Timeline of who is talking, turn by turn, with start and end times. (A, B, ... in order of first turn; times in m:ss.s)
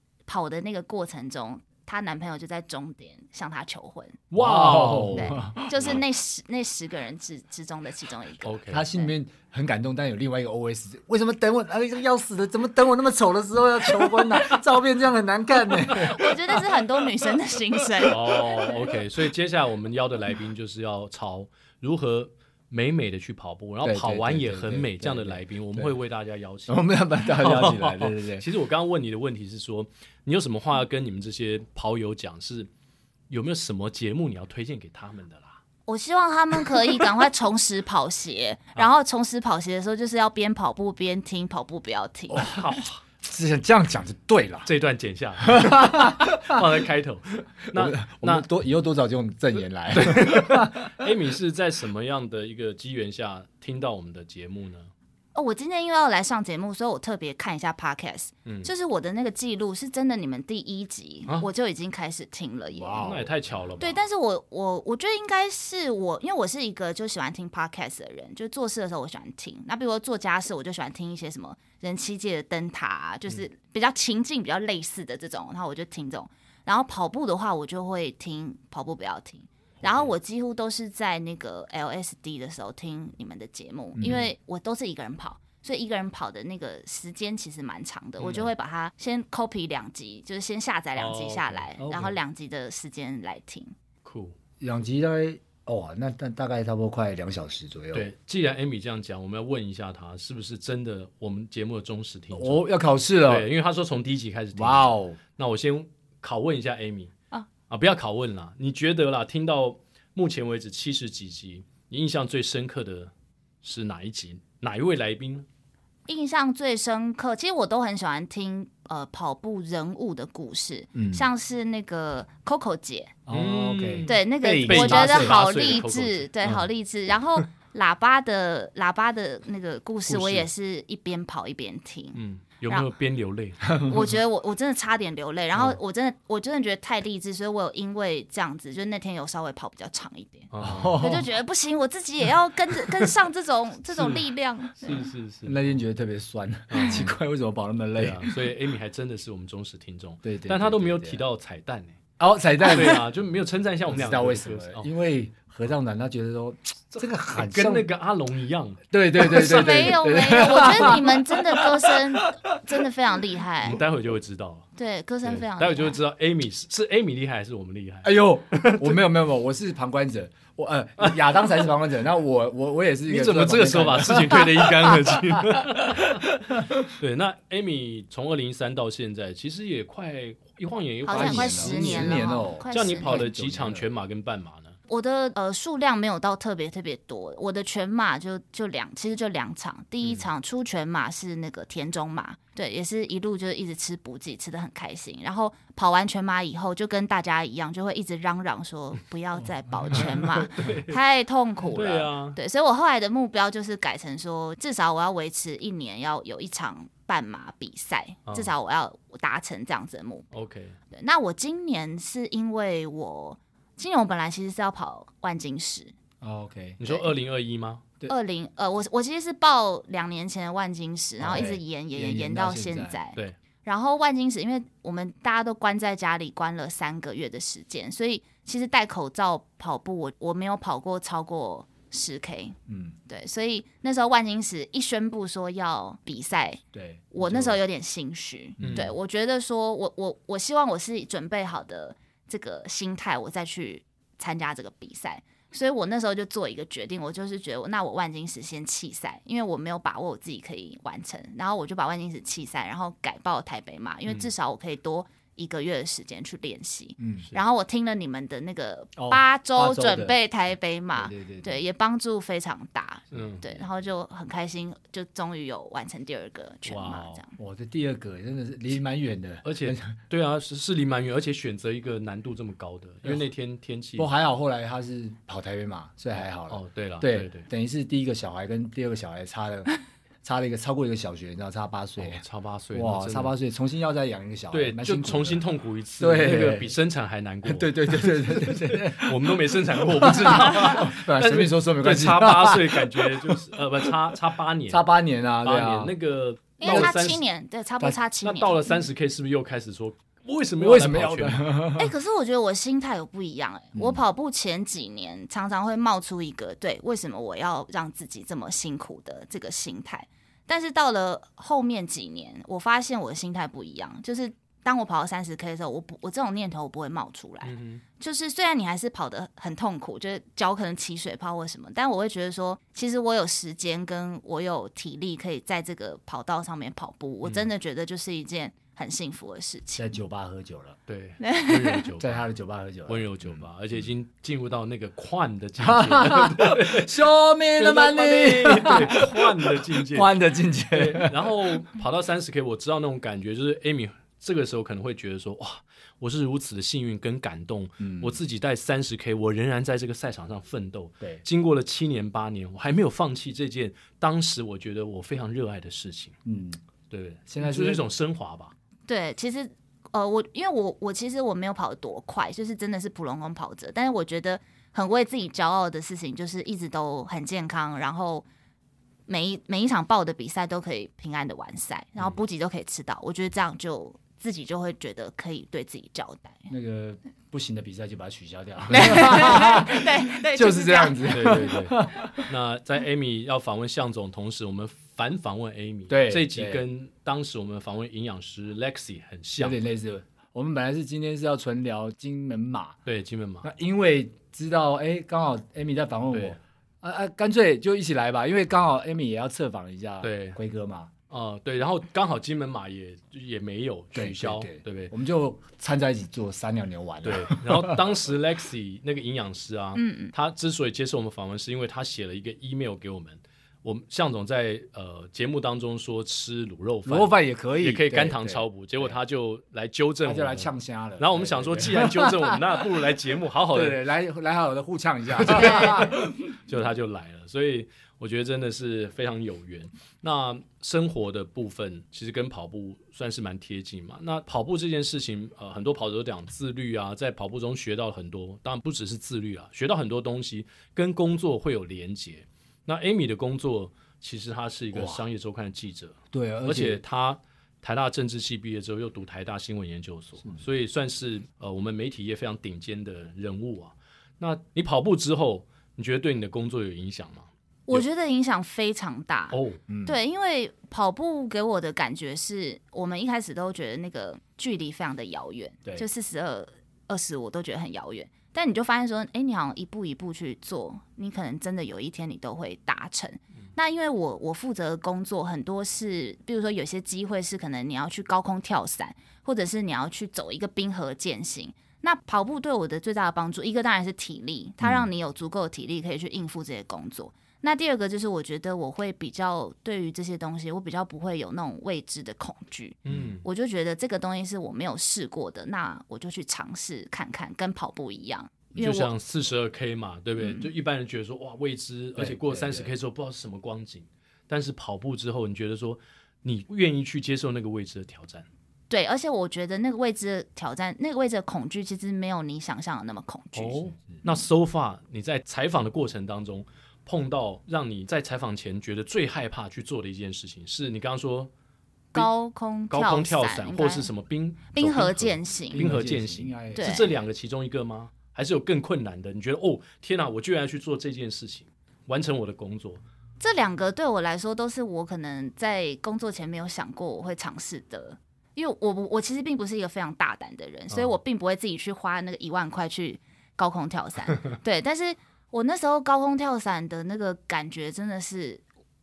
0:00.3-0:04.2 A
0:04.3-0:06.0 B
0:04.4-0:06.0 C
0:05.1-0:09.1 A
0:08.4-0:08.9 B
0:08.7-0:16.3 C
0:14.0-0:14.6 B
0:15.9-0:18.4 A
0:18.0-0:18.8 C
0:18.0-0:32.7 B
0:23.8-0:25.9 C
0:26.7-0:28.4 C
0:33.3-0:35.6 B
0:35.9-0:42.5 A
0:42.3-0:42.7 C
0:42.3-0:43.0 B
0:43.2-0:44.7 C
0:44.6-0:48.5 B
0:45.4-0:46.7 C
0:47.7-0:51.1 C
0:49.9-0:54.9 B
0:55.3-1:03.1 A
0:58.4-0:58.7 B
1:02.7-1:03.3 C
1:03.0-1:04.0 B
1:03.8-1:33.7 A
1:19.8-1:20.1 B
1:23.9-1:24.3 C
1:31.0-1:31.7 B
1:31.8-1:32.2 C
1:34.0-1:34.4 B
1:34.6-1:38.1 C
1:37.9-1:42.6 B
1:42.3-1:43.5 C
1:43.2-1:47.1 B
1:44.5-1:45.2 C
1:47.7-1:53.1 B
1:53.6-1:55.4 B
1:56.1-2:03.1 A
2:00.9-2:01.2 C
2:03.3-2:05.4 C
2:03.3-2:06.6 B
2:04.0-2:12.9 A
2:10.1-2:10.5 B
2:12.1-2:13.6 B
2:13.7-2:14.0 C
2:13.8-2:25.1 A
2:20.5-2:21.0 B
2:20.6-2:21.3 C
2:24.8-2:25.8 B
2:25.4-2:28.3 C
2:26.7-2:27.2 B
2:28.0-2:32.0 B
2:30.2-2:31.2 C
2:32.2-2:33.1 C
2:32.6-2:34.9 B
2:33.9-2:37.9 C
2:36.9-2:41.0 B
2:38.9-2:42.6 C
2:39.3-2:43.8 A
2:43.6-2:44.7 B
2:44.8-2:46.0 A
2:45.2-2:49.0 B
2:48.0-2:56.9 C
2:53.1-3:04.8 B
3:01.0-3:03.3 A
3:01.1-3:03.8 C
3:04.9-3:30.3 A
3:19.4-3:20.7 C
3:19.9-3:21.0 B
3:21.7-3:22.4 B
3:30.3-3:30.8 B
3:30.9-3:35.9 A
3:36.2-3:36.8 C
3:36.8-3:37.8 B
3:38.1-3:52.6 A
3:41.2-3:43.0 C
3:52.7-3:53.0 C
3:53.1-3:56.6 A
3:56.7-3:57.6 C
3:57.1-4:27.3 A
3:58.6-3:58.9 C
3:58.6-3:58.9 B
4:17.0-4:17.3 C
4:19.0-4:20.2 C
4:21.0-4:21.6 C
4:23.1-4:23.6 B
4:26.6-4:27.2 B
4:27.4-4:30.0 C
4:29.4-4:34.1 B
4:34.0-4:39.7 C
4:36.2-4:37.5 B
4:40.2-4:42.2 C
4:42.0-4:43.3 B
4:42.7-4:45.5 C
4:44.5-4:54.9 B
4:46.0-4:46.7 C
4:47.4-4:53.9 C
4:54.7-4:55.9 C
4:55.4-4:57.2 B
4:56.6-4:58.8 A
4:56.6-4:57.0 C
4:58.2-5:01.4 B
5:00.6-5:01.9 C
5:01.8-5:29.9 A
5:03.7-5:04.0 C
5:17.4-5:17.8 B
5:29.8-5:30.8 C
5:30.9-5:32.2 B
5:31.2-5:31.8 A
5:32.0-5:33.4 C
5:32.8-5:56.1 B
5:35.6-5:41.6 C
5:47.8-5:48.2 C
5:56.2-5:56.6 C
5:56.9-5:58.5 B
5:57.3-5:57.8 C
5:58.9-6:08.3 A
6:09.1-6:16.5 A
6:16.5-6:22.3 C
6:18.7-6:21.4 A
6:21.1-6:29.6 B
6:25.9-6:26.6 C
6:29.4-6:32.8 C
6:32.8-6:33.5 B
6:33.4-6:40.9 C
6:36.1-6:36.4 B
6:40.0-6:40.4 B
6:41.1-6:44.9 B
6:43.9-6:47.8 C
6:47.0-7:03.8 B
6:49.8-6:50.1 A
6:56.8-6:58.9 C
7:00.0-7:02.6 C
7:03.5-7:06.2 C
7:05.2-7:37.8 B
7:05.3-7:05.8 A
7:24.7-7:25.0 C
7:26.1-7:26.8 C
7:37.7-8:18.9 A
7:39.3-7:39.6 B
7:39.7-7:40.0 C
8:04.6-8:04.9 C
8:12.8-8:13.2 B
8:12.9-8:13.2 C
8:18.6-8:28.2 B
8:20.2-8:20.5 A
8:22.0-8:22.7 C
8:28.7-8:33.6 A
8:33.3-8:41.3 B
8:41.9-8:43.9 A
8:42.7-8:52.8 B
8:44.5-8:45.6 A
8:45.5-8:46.9 C
8:46.6-8:46.9 A
8:53.2-9:08.4 A
9:00.7-9:01.0 B